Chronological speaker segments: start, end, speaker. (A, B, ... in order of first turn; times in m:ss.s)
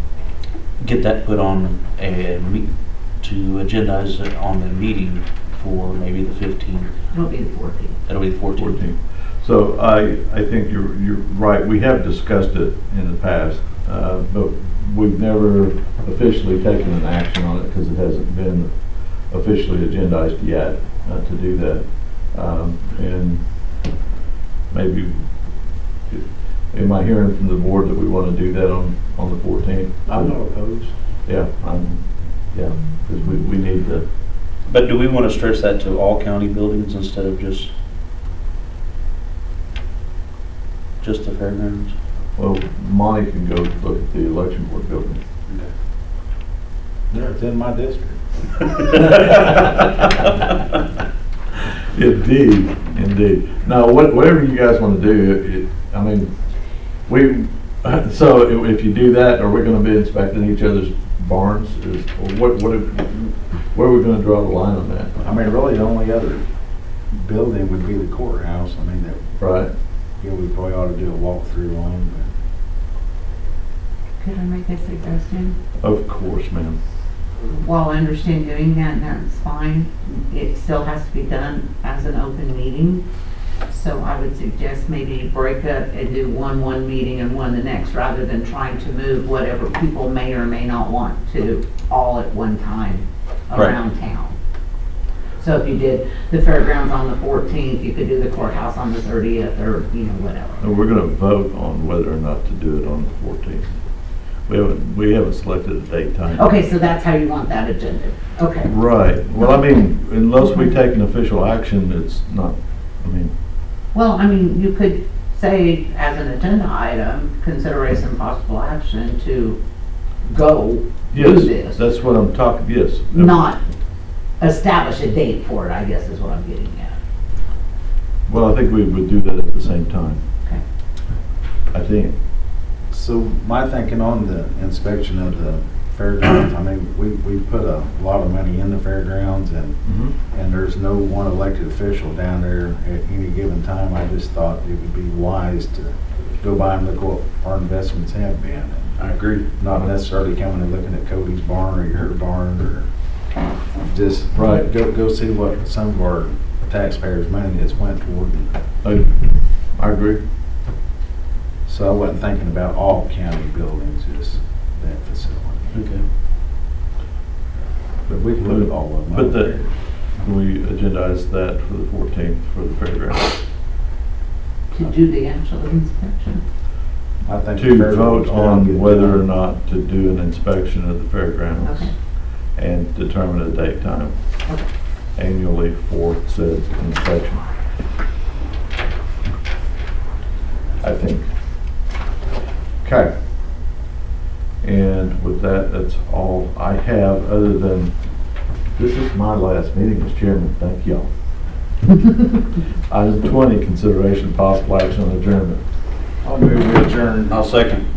0:00.8-0:06.9 A
0:07.1-0:08.0 B
0:08.0-0:08.8 A
0:08.5-0:24.0 C
0:24.7-0:30.3 C
0:31.2-0:34.0 C
0:34.7-0:37.7 A
0:41.0-0:41.9 A
0:42.4-0:45.2 C
0:47.1-0:48.2 D
0:49.2-0:49.7 C
0:51.9-0:56.3 C
0:57.0-1:05.2 C
1:05.2-1:06.4 D
1:07.1-1:09.2 D
1:09.4-1:09.7 C
1:10.2-1:12.3 D
1:14.2-1:15.6 B
1:15.8-1:16.8 C
1:17.4-1:23.0 B
1:23.7-1:34.4 B
1:35.4-1:40.6 B
1:40.6-1:43.8 C
1:44.4-1:46.6 C
1:46.3-1:48.7 B
1:48.6-1:53.3 C
1:50.4-1:50.7 B
1:53.9-1:59.6 B
2:00.2-2:01.8 B
2:01.1-2:03.4 C
2:03.1-2:03.6 B
2:04.4-2:07.0 B
2:08.3-2:10.2 C
2:11.7-2:12.1 C
2:12.9-2:19.8 D
2:19.8-2:20.1 C
2:20.3-2:28.8 D
2:29.0-2:29.5 A
2:29.6-2:32.8 D
2:33.9-2:38.5 D
2:34.3-2:34.6 C
2:38.8-2:39.2 C
2:39.8-2:40.2 C
2:41.7-2:45.6 D
2:45.7-2:46.0 A
2:48.1-2:53.3 C
2:48.2-2:49.6 D
2:54.7-2:56.4 B
2:57.2-2:59.2 D
2:57.5-3:04.4 C
3:01.6-3:01.9 B
3:05.2-3:07.4 C
3:10.8-3:11.3 C
3:12.8-3:13.1 C
3:14.6-3:17.9 C
3:18.8-3:21.1 C
3:22.9-3:25.6 C
3:26.2-3:27.3 D
3:27.3-3:27.8 A